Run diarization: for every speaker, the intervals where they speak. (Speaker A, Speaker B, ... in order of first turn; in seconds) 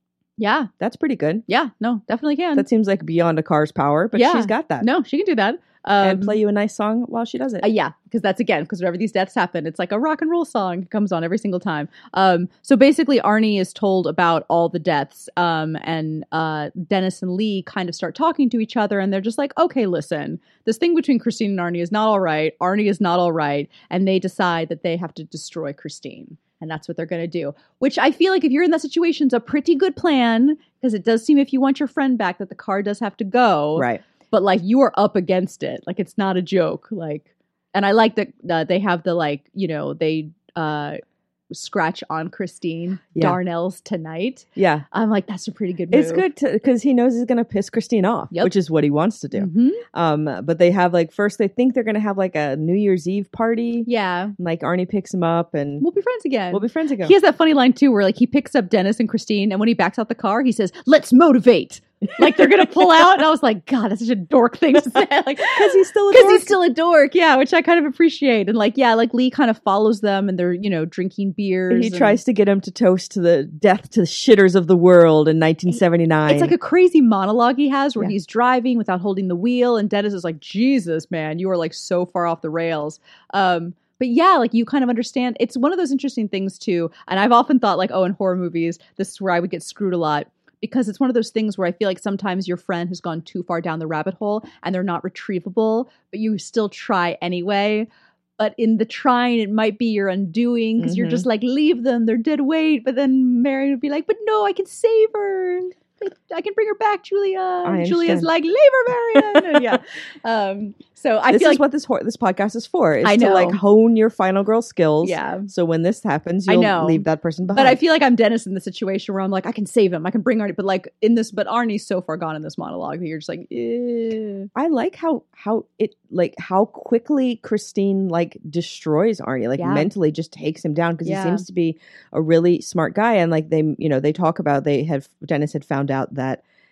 Speaker A: 0.4-0.7, 1.5-2.7, 4.1-6.4, 7.6-41.0, 41.5-46.3, 49.3-49.8, 53.9-54.4, 55.8-72.2, 76.3-111.6, 113.0-113.6, 115.0-115.5, 116.5-124.5, 129.6-129.9, 131.0-131.4
Speaker B: 0.8-1.4, 2.6-4.9, 6.0-7.7, 33.8-34.0, 44.6-44.9, 45.9-55.9, 56.5-57.1, 65.5-66.6, 71.7-76.6, 100.8-101.3, 107.6-108.3, 109.2-109.7, 111.3-117.8, 124.5-136.4